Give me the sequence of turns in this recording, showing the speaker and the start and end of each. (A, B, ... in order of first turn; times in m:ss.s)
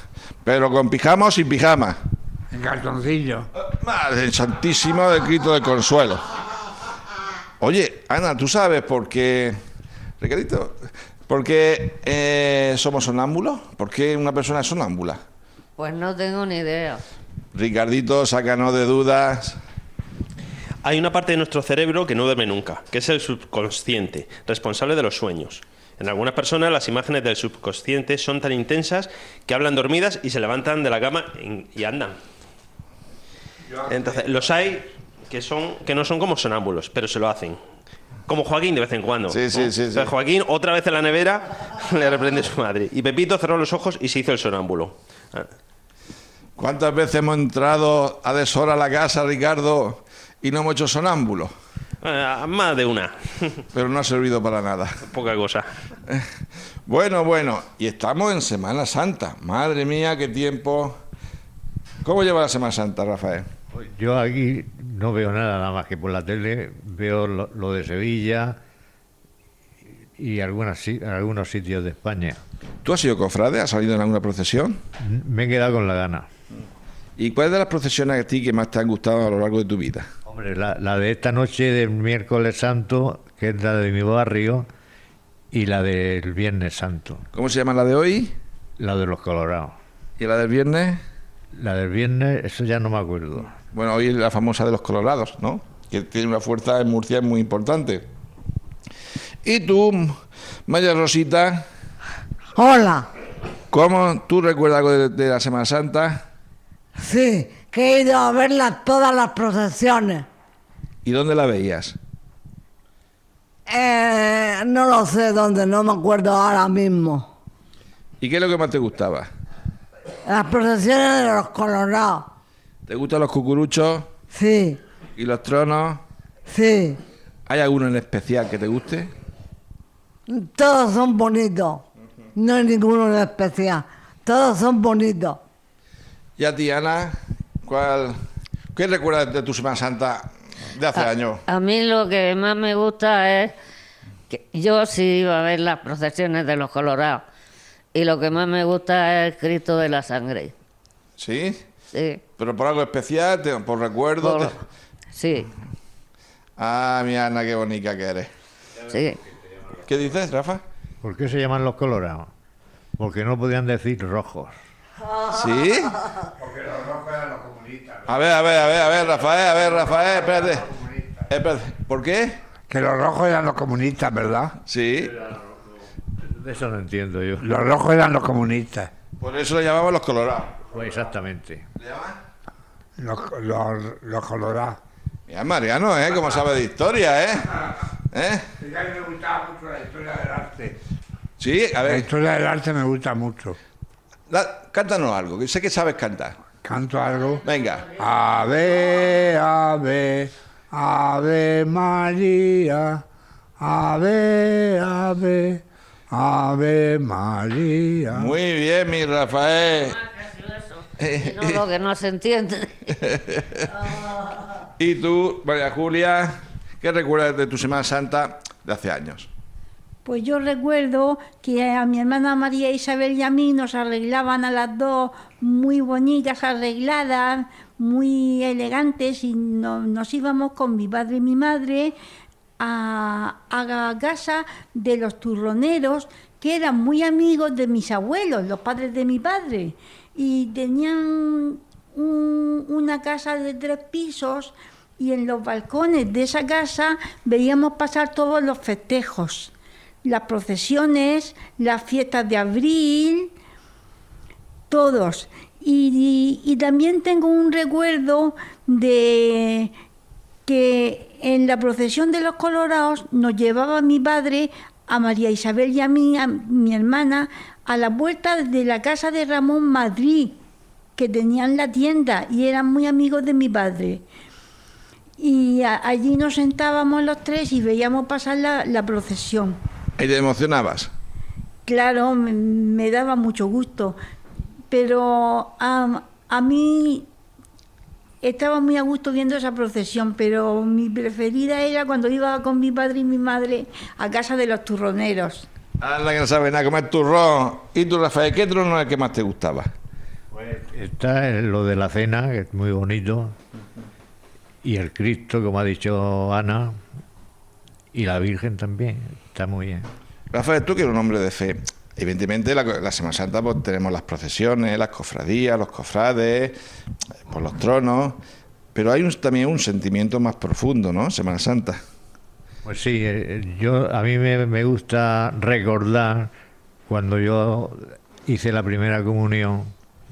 0:00.4-0:02.0 A
0:02.5-0:03.5 B
0:03.6-0:06.2 A
0:07.6-0:09.6 A
0:10.2-0:10.8 A
0:11.3-0:15.2 A
0:15.8-0:17.0 C
0:17.5-0:19.6 A
0:20.8-0:32.2 D
0:33.7-0:34.2 B
0:33.8-0:37.6 D
0:38.3-0:45.5 D
0:39.3-0:40.1 A
0:46.6-0:51.5 A
0:52.0-0:53.6 D
0:53.7-0:55.0 A
0:55.1-0:55.6 D
0:56.9-1:01.0 A
1:02.0-1:03.4 A
1:03.7-1:08.6 E
1:10.2-1:12.4 E
1:12.8-1:14.8 A
1:15.0-1:16.3 E
1:17.2-1:20.1 A
1:20.3-1:24.7 E
1:25.5-1:27.3 E
1:27.3-1:28.3 A
1:28.8-1:29.8 E
1:30.2-1:31.0 A
1:31.6-1:33.5 E
1:33.7-1:38.1 A
1:39.4-1:40.2 A
1:40.7-1:41.6 A
1:42.6-1:43.1 F
1:43.7-1:46.2 A
1:47.0-1:50.3 F
1:51.0-1:52.0 A
1:53.7-1:57.3 F
1:58.2-1:59.3 A
2:00.3-2:02.3 F
2:02.9-2:04.1 A
2:04.3-2:04.8 F
2:05.2-2:06.0 A
2:06.5-2:07.0 F
2:07.5-2:09.1 A
2:10.3-2:11.8 F
2:12.4-2:15.4 F
2:16.4-2:18.2 A
2:18.7-2:21.4 A
2:20.9-2:23.6 C
2:24.3-2:27.2 C
2:27.9-2:30.5 C
2:31.2-2:31.6 A
2:31.9-2:32.2 C
2:32.4-2:34.5 A
2:34.2-2:34.6 C
2:35.1-2:35.5 C
2:36.6-2:38.3 A
2:38.9-2:39.2 C
2:39.8-2:40.6 A
2:41.0-2:42.3 E
2:43.0-2:44.6 E
2:45.3-2:46.0 A
2:46.4-2:48.1 B
2:48.1-2:50.7 A
2:49.6-2:51.3 B
2:51.3-2:52.4 A
2:52.7-2:54.6 B
2:54.7-2:55.1 A
2:55.0-2:55.7 E
2:56.3-2:57.5 E
2:57.4-2:58.9 B
2:59.2-3:00.6 A
3:00.7-3:01.6 E
3:01.8-3:02.2 A
3:03.0-3:04.8 B
3:05.3-3:07.5 A
3:08.1-3:08.4 A
3:08.6-3:10.8 B
3:11.4-3:12.0 A
3:11.8-3:13.6 B
3:14.3-3:16.4 A
3:16.6-3:23.0 B
3:17.4-3:17.9 A
3:23.6-3:28.3 B
3:28.1-3:30.0 A
3:29.9-3:32.8 C
3:31.0-3:31.6 A
3:34.8-3:36.3 A
3:36.8-3:39.3 A
3:40.0-3:51.9 G
3:52.6-4:09.5 G
4:10.0-4:13.3 G
4:14.7-4:19.7 G
4:20.5-4:30.4 G
4:31.0-4:34.0 G
4:35.2-4:39.6 G
4:40.0-4:40.9 A
4:41.6-4:44.0 G
4:44.7-4:47.1 G
4:48.2-4:55.5 G
4:55.8-4:59.7 A
5:00.3-5:03.4 E
5:04.6-5:06.8 E
5:07.9-5:09.9 E
5:10.3-5:16.6 A
5:17.3-5:18.2 A
5:18.7-5:21.8 A
5:22.6-5:26.3 E
5:26.9-5:29.7 E